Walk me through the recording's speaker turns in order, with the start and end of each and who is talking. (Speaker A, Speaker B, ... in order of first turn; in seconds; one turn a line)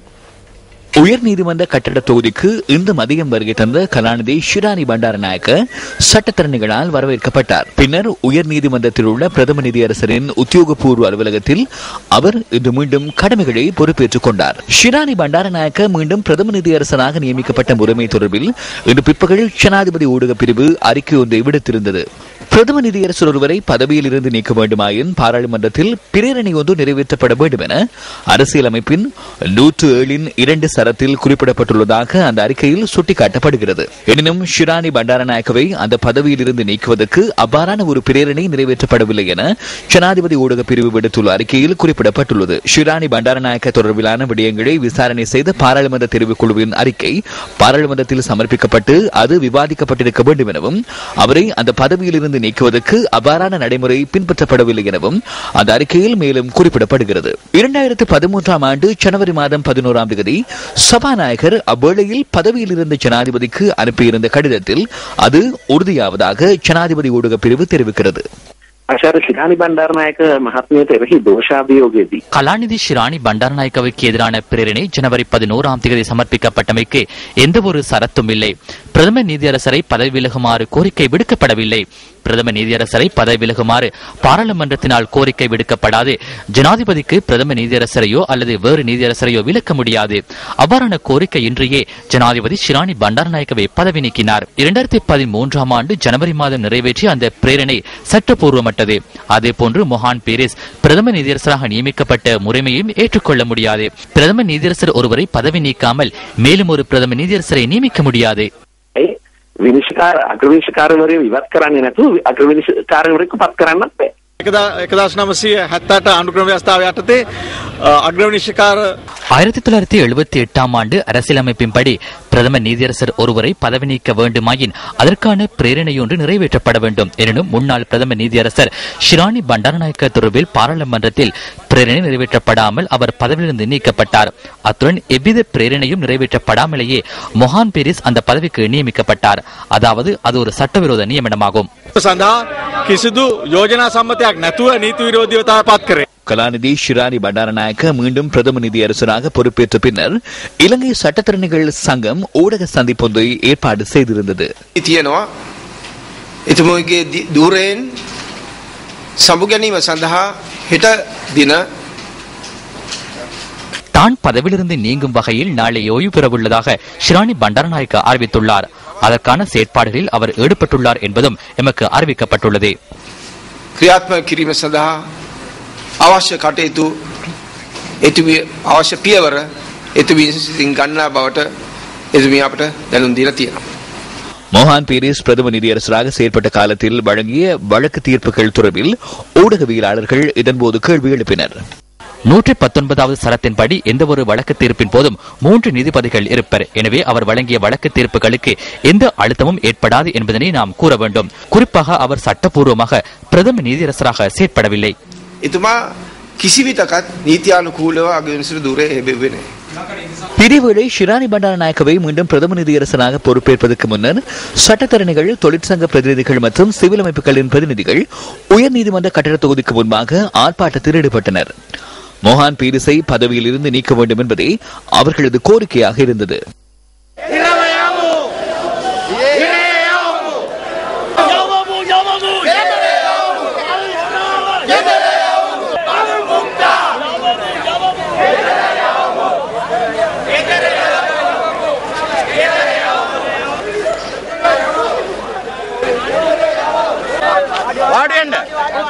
Speaker A: 1.0-68.2
Speaker B: 68.9-72.2
Speaker C: 72.3-108.5
Speaker B: 109.0-114.1
Speaker D: 114.4-117.2
Speaker D: 117.8-118.9
Speaker C: 119.3-141.7
Speaker D: 141.9-146.0
Speaker A: 146.3-154.5
Speaker E: 154.8-155.2
Speaker E: 156.5-157.9
Speaker E: 159.2-161.6
Speaker C: 163.9-172.7
Speaker E: 173.8-175.0
Speaker E: 176.0-176.9
Speaker E: 178.0-179.4
Speaker E: 179.9-181.5
Speaker E: 182.1-183.6
Speaker A: 184.5-191.5
Speaker C: 192.3-204.9
Speaker E: 205.4-205.8
Speaker E: 206.4-209.4
Speaker A: 210.4-221.5
Speaker A: 222.2-226.4